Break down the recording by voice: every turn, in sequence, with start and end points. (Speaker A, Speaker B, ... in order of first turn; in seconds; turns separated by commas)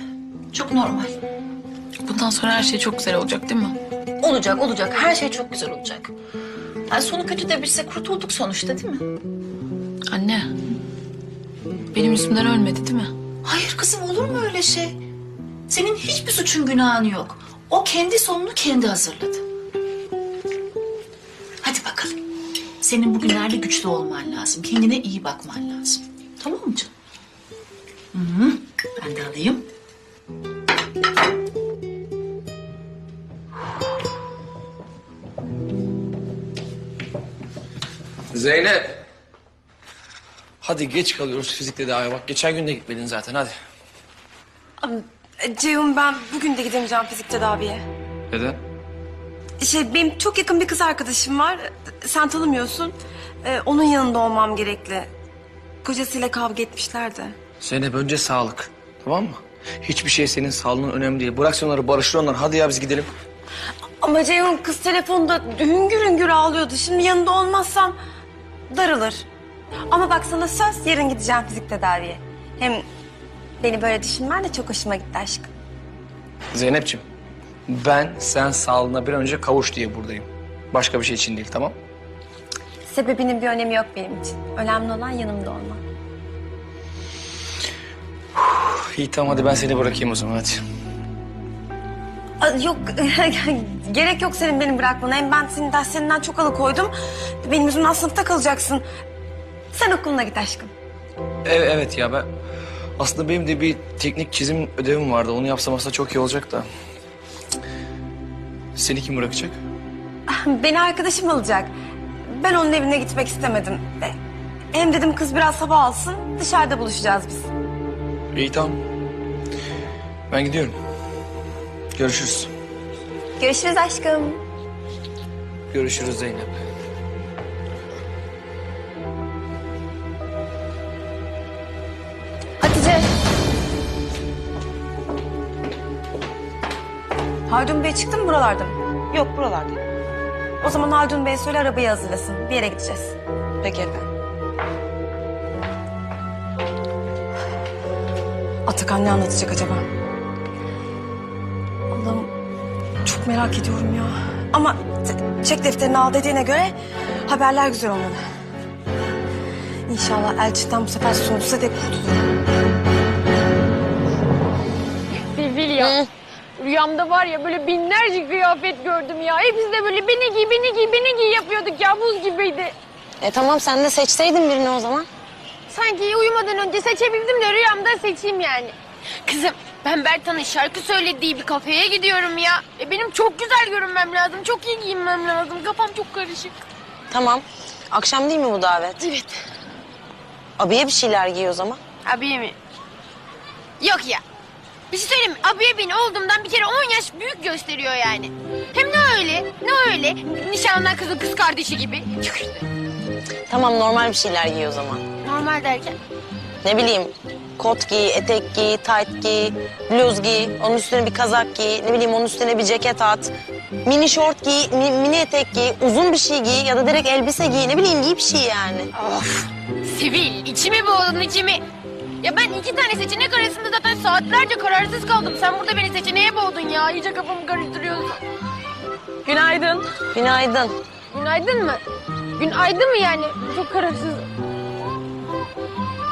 Speaker A: 0.5-1.2, Speaker B: 2.0-3.8, Speaker A: 4.2-6.1, Speaker A: 6.9-9.1, Speaker B: 10.1-10.5, Speaker B: 11.9-13.1, Speaker A: 13.4-15.0, Speaker A: 15.7-19.4, Speaker A: 21.6-22.2, Speaker A: 22.8-26.9, Speaker A: 28.1-29.6, Speaker C: 38.3-39.0, Speaker C: 40.6-43.5, Speaker D: 44.8-47.8, Speaker C: 48.3-48.6, Speaker D: 49.6-55.1, Speaker D: 55.8-57.4, Speaker C: 57.6-63.1, Speaker D: 64.0-68.0, Speaker D: 68.7-69.2, Speaker D: 69.9-72.8, Speaker D: 73.6-75.5, Speaker C: 76.5-77.0, Speaker C: 77.7-81.8, Speaker D: 82.8-85.8, Speaker C: 88.4-90.6, Speaker D: 92.4-96.9, Speaker D: 97.4-98.8, Speaker D: 99.7-100.7, Speaker C: 101.4-102.3, Speaker C: 103.0-106.6, Speaker C: 108.8-109.5, Speaker D: 110.3-111.7, Speaker D: 112.3-114.2, Speaker D: 114.7-117.5, Speaker C: 118.3-118.8, Speaker C: 120.3-120.8, Speaker C: 122.0-122.5, Speaker D: 123.4-124.4, Speaker C: 125.7-126.5, Speaker D: 132.6-133.1, Speaker D: 137.5-139.8, Speaker D: 140.6-144.1, Speaker D: 148.7-149.8, Speaker D: 151.9-152.3, Speaker D: 153.0-156.7, Speaker D: 157.2-158.2, Speaker D: 159.9-162.2, Speaker E: 165.3-166.0, Speaker F: 165.8-166.1, Speaker E: 166.6-172.7, Speaker F: 173.2-175.1, Speaker E: 175.7-186.6, Speaker F: 187.1-189.1, Speaker E: 189.0-189.3, Speaker F: 190.6-191.8, Speaker E: 192.0-192.6, Speaker E: 193.8-194.2, Speaker E: 194.9-202.7, Speaker F: 203.5-205.0, Speaker E: 205.2-205.9, Speaker F: 206.6-218.9, Speaker E: 218.9-221.6, Speaker E: 222.2-228.2, Speaker E: 229.2-229.8, Speaker F: 230.1-230.8, Speaker E: 231.1-231.8, Speaker E: 232.4-234.3